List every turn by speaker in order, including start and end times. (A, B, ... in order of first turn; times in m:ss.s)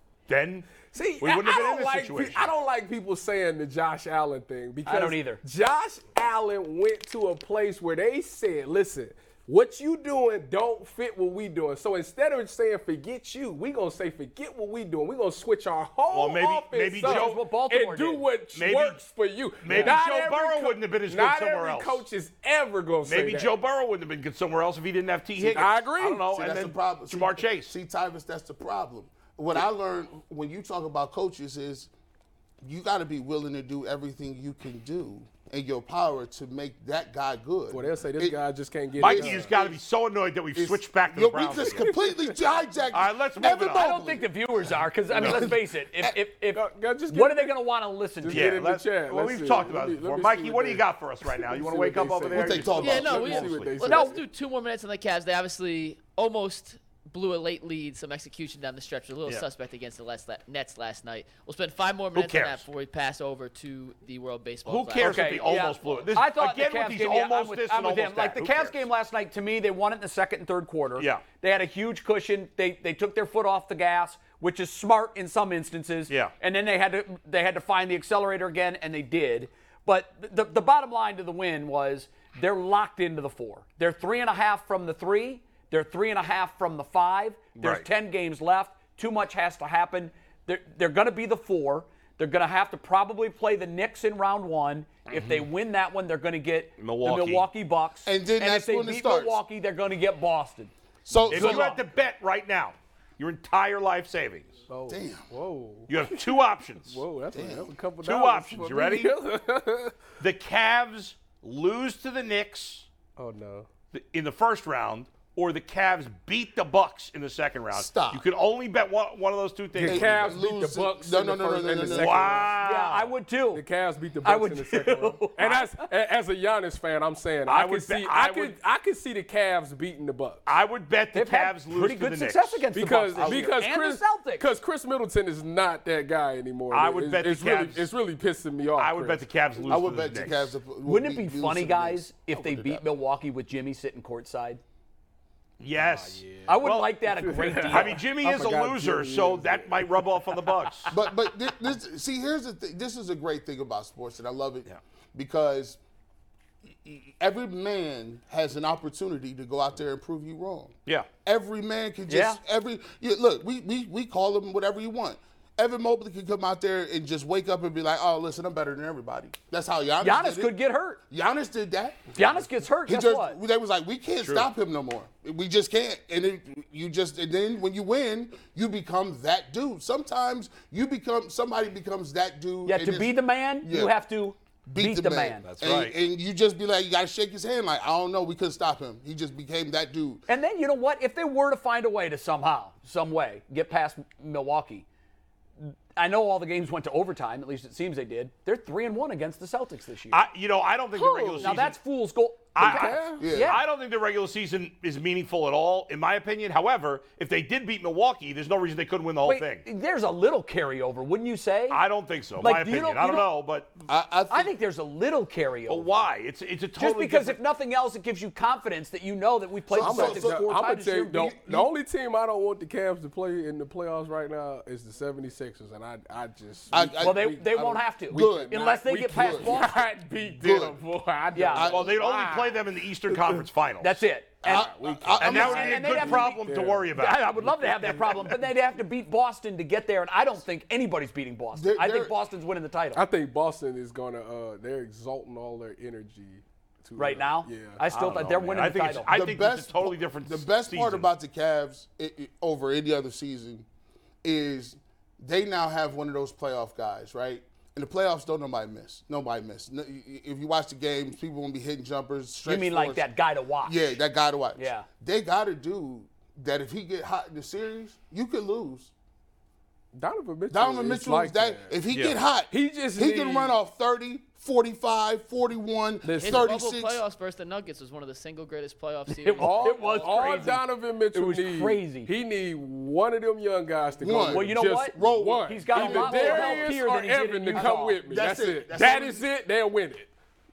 0:00.3-0:02.5 A
0:00.8-0:23.6 B
0:04.9-0:05.4 C
0:16.1-0:17.4 A
0:17.0-0:18.3 C
0:18.5-0:19.1 A
0:19.6-0:22.0 A
0:19.7-0:20.0 C
0:23.1-0:27.7 A
0:25.4-0:26.3 B
0:26.3-0:31.9 D
0:32.6-0:38.4 D
0:37.7-0:39.5 B
0:39.0-0:39.8 D
0:39.0-0:41.9 A
0:40.5-0:46.2 D
0:41.8-0:42.3 B
0:42.9-0:44.0 A
0:43.4-0:48.6 C
0:46.5-0:47.6 B
0:48.2-0:54.2 B
0:48.3-0:53.9 A
0:52.3-0:53.5 D
0:52.8-1:06.1 E
0:53.9-0:54.1 C
1:02.2-1:02.6 A
1:04.7-1:08.8 A
1:05.0-1:40.7 C
1:11.0-1:11.2 A
1:27.6-1:27.9 A
1:35.1-1:35.4 A
1:36.8-1:37.5 A
1:38.1-1:39.4 D
1:41.1-1:41.7 D
1:41.3-1:44.6 A
1:41.3-1:41.8 C
1:44.7-1:50.0 B
1:44.9-1:45.3 D
1:45.9-1:47.0 A
1:47.3-1:47.7 D
1:48.0-1:49.1 A
1:50.2-1:52.9 A
1:53.2-1:53.7 B
1:53.9-2:00.3 A
1:57.7-1:58.2 D
1:59.7-2:02.6 B
1:59.8-2:02.5 D
2:01.8-2:03.1 A
2:02.6-2:03.6 C
2:03.5-2:10.4 B
2:04.2-2:05.9 C
2:07.5-2:08.6 A
2:10.5-2:12.7 A
2:11.1-2:14.5 C
2:12.7-2:19.8 B
2:16.7-2:17.9 A
2:18.8-2:20.6 A
2:19.7-2:22.8 D
2:20.8-2:24.6 C
2:25.6-2:27.0 A
2:25.8-2:30.2 B
2:26.5-2:28.0 C
2:27.7-2:31.0 A
2:30.9-2:35.8 D
2:36.7-2:50.6 D
2:42.1-2:42.4 C
2:50.0-2:51.0 C
2:51.1-2:52.1 D
2:52.2-2:53.4 C
2:52.9-3:04.0 D
2:54.2-2:54.5 A
3:02.6-3:05.5 C
3:04.7-3:10.2 D
3:05.5-3:06.0 A
3:10.3-3:14.8 C
3:15.6-3:20.2 C
3:20.1-3:21.8 A
3:21.0-3:21.6 B
3:21.4-3:23.6 C
3:22.6-3:29.6 A
3:22.6-3:23.3 B
3:23.2-3:23.6 D
3:29.2-3:31.8 C
3:31.7-3:33.8 A
3:32.4-3:33.3 C
3:33.9-3:34.5 D
3:34.3-3:36.1 C
3:35.7-3:37.4 A
3:36.8-3:41.4 C
3:39.7-3:40.5 D
3:39.8-3:53.5 B
3:41.2-3:41.7 D
3:46.7-3:49.6 D
3:47.0-3:49.9 C
3:50.4-3:50.8 D
3:51.3-3:51.7 C
3:51.5-3:52.0 D
3:51.6-3:54.0 A
3:53.8-3:56.4 C
3:54.4-3:56.1 D
3:54.5-3:58.4 B
3:55.2-3:57.3 A
3:56.9-4:03.0 C
4:01.5-4:02.2 D
4:02.9-4:07.9 B
4:07.0-4:09.1 C
4:07.9-4:11.1 A
4:09.1-4:13.7 D
4:14.2-4:23.1 D
4:22.5-4:24.0 C
4:23.6-4:28.9 D
4:24.6-4:24.9 C
4:29.9-4:31.8 B
4:30.5-4:37.0 D
4:31.9-4:32.2 A
4:32.5-4:33.6 B
4:36.0-4:36.5 B
4:36.2-4:40.5 E
4:39.2-4:42.1 C
4:39.3-4:50.1 B
4:44.0-4:46.8 D
4:44.3-4:48.0 C
4:47.6-4:49.2 D